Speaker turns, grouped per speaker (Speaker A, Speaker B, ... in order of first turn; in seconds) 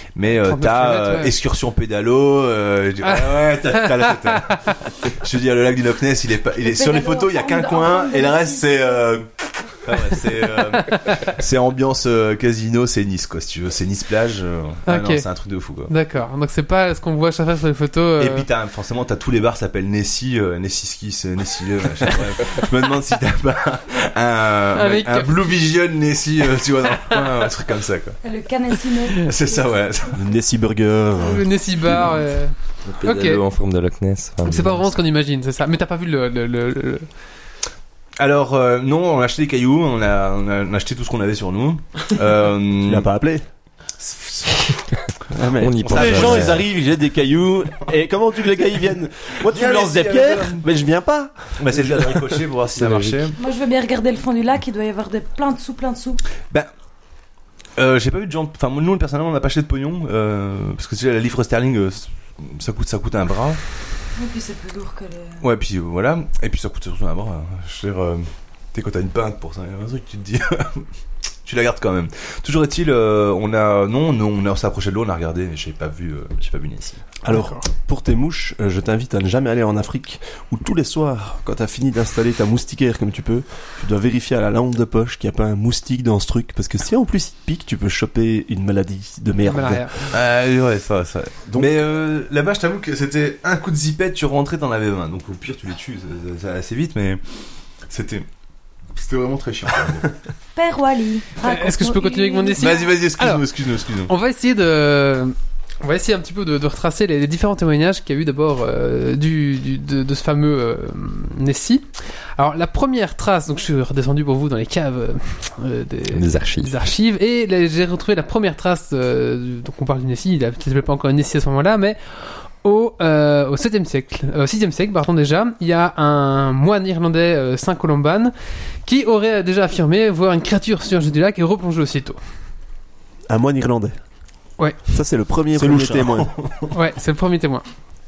Speaker A: 0.1-9.3, 9.8-15.9, 18.2-28.2, 29.2-30.2, 38.2-43.1, 44.0-44.8, 45.8-46.6, 49.5-50.6, 51.6-53.4, 57.8-63.6, 65.4-70.9, 71.5-77.0, 90.1-97.2, 97.9-98.3, 99.0-100.2, 102.6-104.1, 135.6-136.7
Speaker B: 0.3-1.3, 3.0-4.6, 10.8-11.2, 14.9-15.2, 15.9-18.4, 24.7-25.6, 31.2-33.4, 34.5-37.0, 77.3-77.6, 89.5-89.9, 101.4-103.4, 104.0-111.8, 112.4-122.0, 122.6-128.3, 128.9-132.2, 136.7-137.6
Speaker C: 6.6-9.1, 28.2-29.7, 53.4-56.2, 64.2-65.4, 100.5-102.8
Speaker D: 30.1-31.5, 42.9-43.4, 45.3-52.4, 77.2-90.1, 91.5-91.8, 133.3-133.9, 134.9-136.3
Speaker E: 32.9-34.8, 45.6-46.6, 52.8-53.2, 116.1-116.7